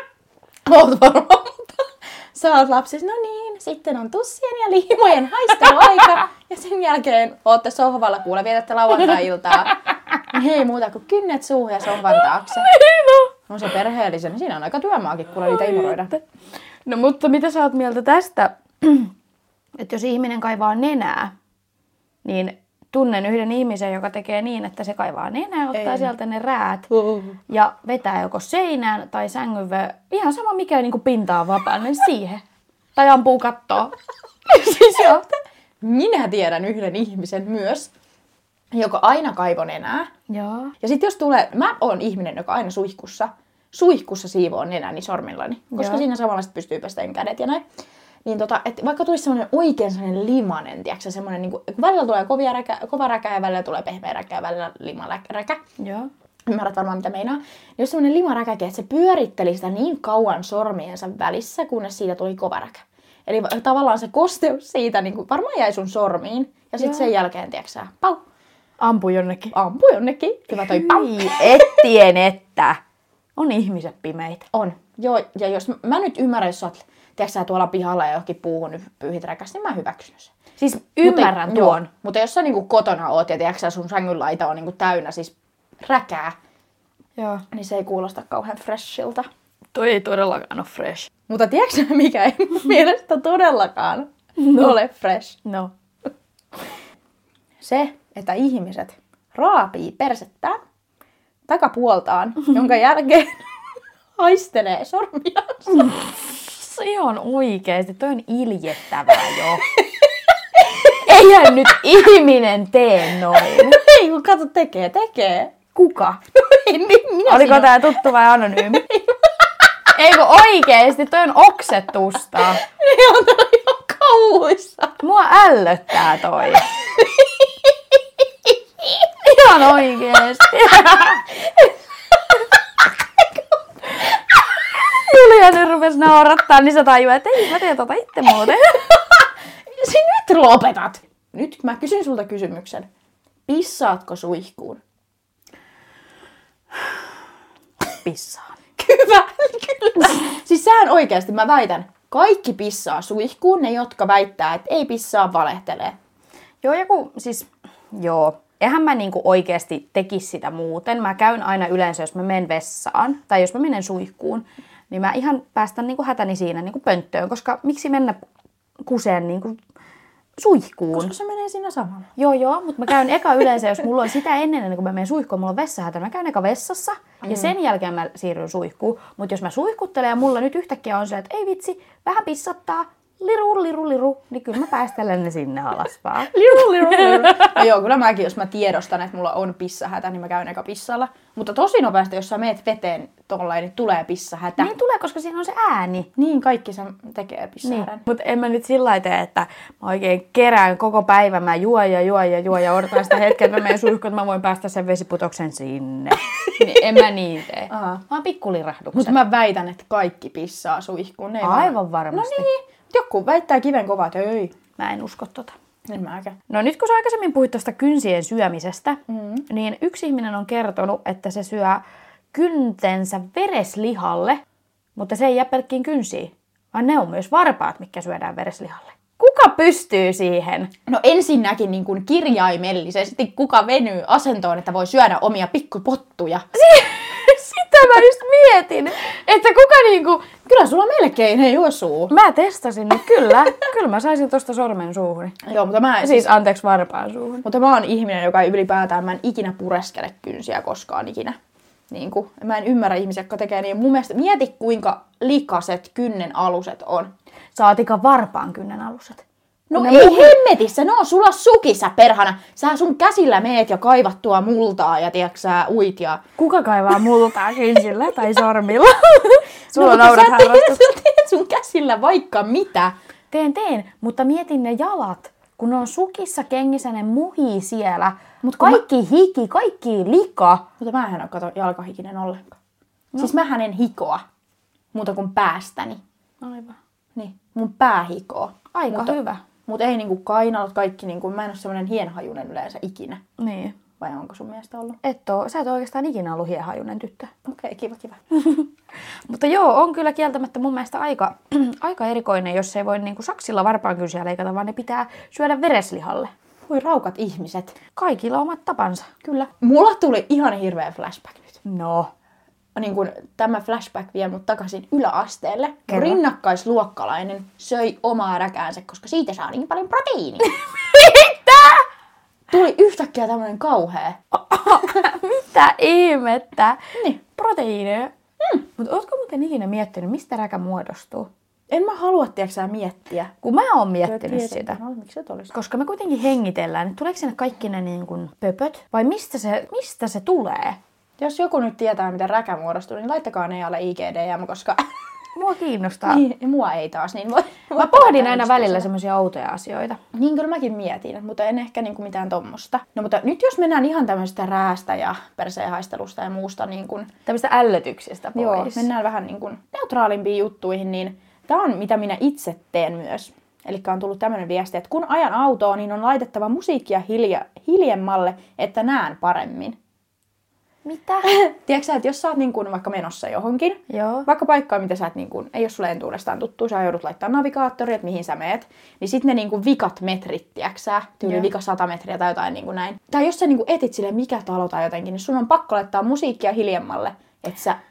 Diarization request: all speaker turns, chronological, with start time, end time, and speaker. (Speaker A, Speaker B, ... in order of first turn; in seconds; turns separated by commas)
Speaker A: 0.7-12.7, Speaker B: 12.6-13.3, Speaker A: 13.5-16.1, Speaker B: 15.6-16.2, Speaker B: 16.9-19.1, Speaker B: 19.8-21.3, Speaker B: 22.2-26.9, Speaker A: 25.7-26.1, Speaker A: 27.0-27.3, Speaker B: 27.5-32.4, Speaker B: 32.9-33.9, Speaker B: 34.5-35.2, Speaker A: 34.6-35.2, Speaker A: 35.8-37.9, Speaker A: 38.7-40.1, Speaker B: 40.3-40.7, Speaker A: 40.8-47.6, Speaker B: 45.8-46.0, Speaker A: 48.2-55.6, Speaker B: 55.8-56.1, Speaker A: 56.5-68.2, Speaker B: 66.8-67.1, Speaker B: 68.8-69.5, Speaker A: 69.5-71.8, Speaker B: 70.5-72.8, Speaker B: 73.4-74.5, Speaker A: 74.5-80.3, Speaker B: 80.6-81.9, Speaker A: 81.0-86.3, Speaker B: 87.2-87.4, Speaker A: 87.5-89.3, Speaker B: 89.7-91.1, Speaker A: 91.3-95.4, Speaker B: 94.4-94.8, Speaker B: 95.4-95.7, Speaker A: 97.6-100.6, Speaker A: 101.5-103.4, Speaker A: 104.2-105.9, Speaker B: 105.7-109.7, Speaker A: 109.8-110.9, Speaker B: 110.8-113.8, Speaker A: 113.3-115.6, Speaker B: 115.7-116.2, Speaker A: 116.3-118.0, Speaker B: 117.3-118.8, Speaker A: 118.7-119.3, Speaker B: 119.9-122.6, Speaker A: 122.5-125.0, Speaker B: 125.0-126.7, Speaker A: 126.9-129.1, Speaker B: 129.2-131.3, Speaker A: 131.4-132.5, Speaker B: 134.7-138.9, Speaker A: 138.8-142.9, Speaker A: 143.5-144.8, Speaker B: 147.9-148.5, Speaker A: 148.8-155.9, Speaker B: 156.6-168.2, Speaker B: 168.8-169.6, Speaker B: 170.4-171.1, Speaker A: 170.9-172.1, Speaker B: 172.2-187.7, Speaker A: 177.2-177.5, Speaker A: 186.2-194.7, Speaker B: 194.6-196.1, Speaker A: 196.2-198.0, Speaker B: 197.6-209.2, Speaker A: 206.6-207.0, Speaker A: 207.7-208.0, Speaker A: 208.9-214.5, Speaker B: 211.4-212.4, Speaker B: 214.8-215.5, Speaker A: 215.8-216.4, Speaker B: 216.5-221.8, Speaker A: 219.1-219.4, Speaker B: 222.3-224.4, Speaker B: 225.0-230.7, Speaker A: 230.9-236.4, Speaker B: 236.5-240.3, Speaker A: 240.4-242.1, Speaker B: 242.1-245.4, Speaker A: 245.4-246.3, Speaker B: 246.0-247.4, Speaker A: 247.4-251.3, Speaker A: 251.9-257.1, Speaker B: 257.5-259.2, Speaker A: 259.7-266.2, Speaker B: 259.7-260.4, Speaker B: 266.4-270.8, Speaker A: 269.7-272.9, Speaker B: 273.3-280.6, Speaker A: 278.4-278.8, Speaker A: 280.8-282.6, Speaker A: 283.2-284.2, Speaker A: 284.9-286.0, Speaker B: 286.4-286.8, Speaker A: 287.1-293.2, Speaker B: 288.7-289.4, Speaker B: 293.4-293.8, Speaker A: 294.0-295.0, Speaker B: 295.0-297.3, Speaker A: 297.4-298.2, Speaker B: 298.3-298.7, Speaker B: 299.3-306.3, Speaker A: 306.7-307.8, Speaker B: 307.9-309.1, Speaker A: 309.2-311.6, Speaker B: 311.6-312.1, Speaker A: 312.7-320.5, Speaker B: 315.9-316.2, Speaker B: 320.8-321.9, Speaker A: 322.5-324.2, Speaker B: 324.3-331.3, Speaker A: 331.7-333.3, Speaker B: 333.4-334.8, Speaker A: 334.0-335.5, Speaker B: 335.5-340.8, Speaker A: 341.2-344.8, Speaker B: 345.4-346.2, Speaker A: 346.1-348.9, Speaker B: 347.7-350.0, Speaker A: 350.1-357.1, Speaker B: 357.2-358.9, Speaker A: 358.3-369.8, Speaker B: 370.9-371.3, Speaker A: 371.2-387.8, Speaker B: 373.9-374.3